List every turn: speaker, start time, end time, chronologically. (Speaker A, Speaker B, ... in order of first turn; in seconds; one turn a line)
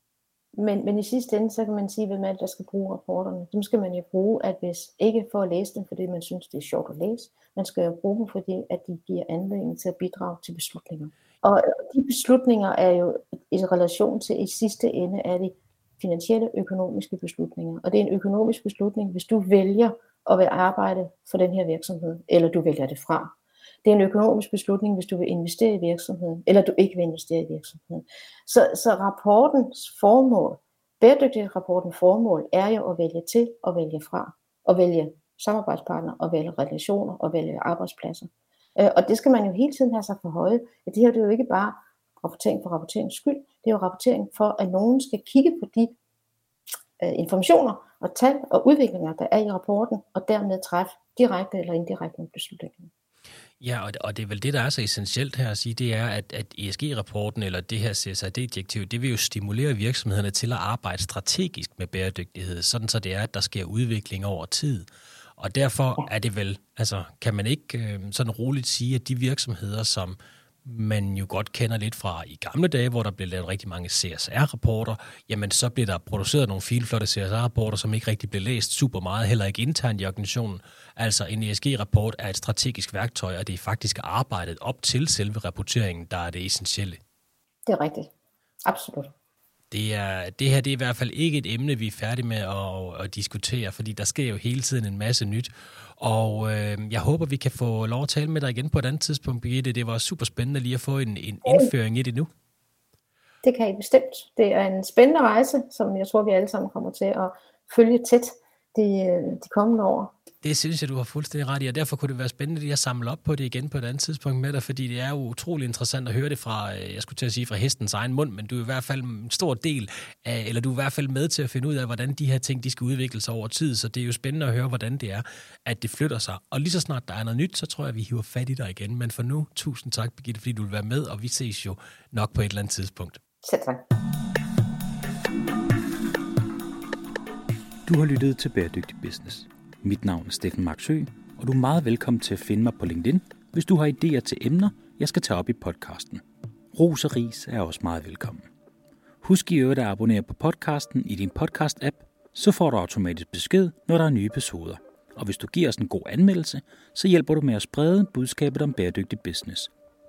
Speaker A: 0.6-45.9
Speaker A: 47.0-52.9
Speaker B: 53.6-64.8
Speaker B: 65.4-87.0
Speaker A: 87.7-88.1
Speaker A: 88.7-89.1
Speaker B: 89.7-102.3
Speaker A: 101.4-101.7
Speaker A: 103.4-110.1
Speaker B: 110.4-133.2
Speaker A: 133.4-133.8
Speaker C: 137.9-148.5
Speaker C: 149.2-159.7